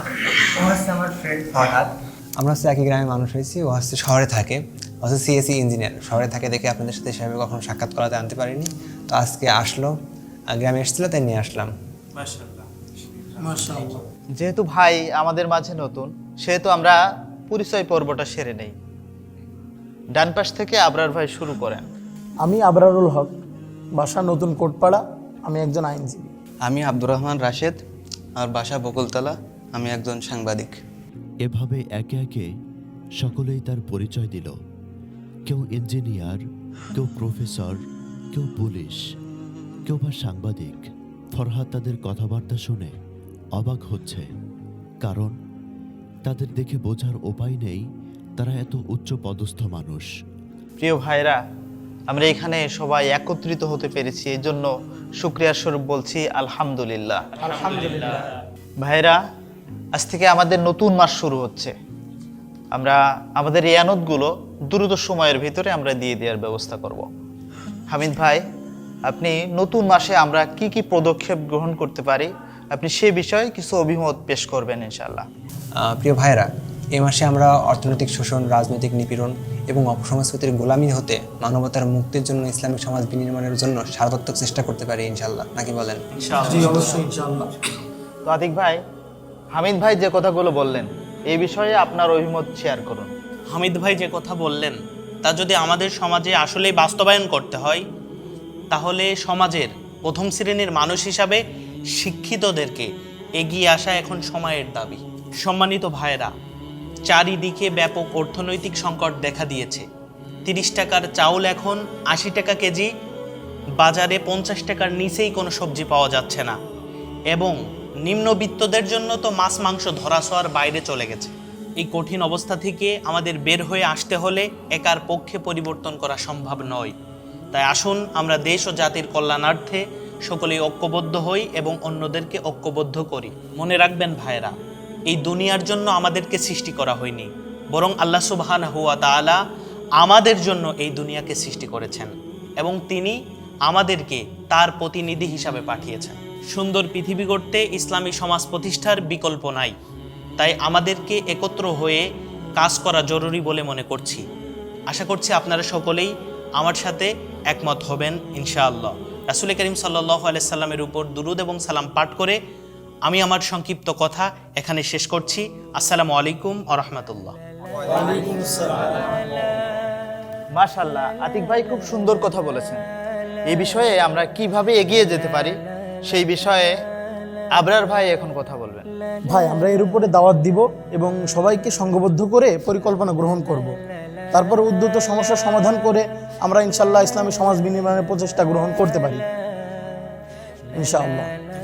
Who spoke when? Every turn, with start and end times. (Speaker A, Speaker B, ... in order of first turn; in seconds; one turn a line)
Speaker A: 0.4-9.9
Speaker A: 10.5-11.7
Speaker B: 13.4-14.0
Speaker C: 14.3-16.9
Speaker C: 17.5-18.8
Speaker C: 20.1-21.8
Speaker B: 22.4-23.3
Speaker B: 24.0-26.3
Speaker D: 26.6-27.8
Speaker D: 28.4-30.7
Speaker E: 31.4-32.5
Speaker E: 33.2-34.5
Speaker E: 35.5-36.4
Speaker E: 36.9-37.8
Speaker E: 38.3-39.0
Speaker E: 39.9-42.9
Speaker E: 43.5-44.3
Speaker E: 45.0-45.3
Speaker E: 46.2-47.8
Speaker E: 48.4-50.1
Speaker C: 50.8-51.4
Speaker C: 52.1-57.4
Speaker F: 57.6-58.2
Speaker C: 58.8-59.2
Speaker C: 59.9-61.7
Speaker C: 62.7-67.0
Speaker C: 67.9-68.4
Speaker C: 69.1-75.2
Speaker A: 75.8-86.0
Speaker B: 86.4-87.5
Speaker C: 88.2-88.8
Speaker C: 89.5-93.1
Speaker F: 93.5-97.8
Speaker F: 98.7-101.4
Speaker F: 102.0-106.3
Speaker F: 107.1-109.8
Speaker F: 110.5-112.9
Speaker F: 113.8-116.5
Speaker F: 117.3-126.9
Speaker F: 127.5-134.5
Speaker F: 135.1-139.4
Speaker F: 140.0-143.2
Speaker F: 143.7-149.7
Speaker F: 150.4-152.0
Speaker F: 152.6-154.2
Speaker F: 154.9-162.4
Speaker F: 163.1-167.3
Speaker B: 168.0-168.8
Speaker C: 170.6-172.8
Speaker C: 173.5-176.7
Speaker C: 177.5-178.8
Speaker B: 179.3-183.7
Speaker B: 184.3-189.2
Speaker B: 190.7-191.3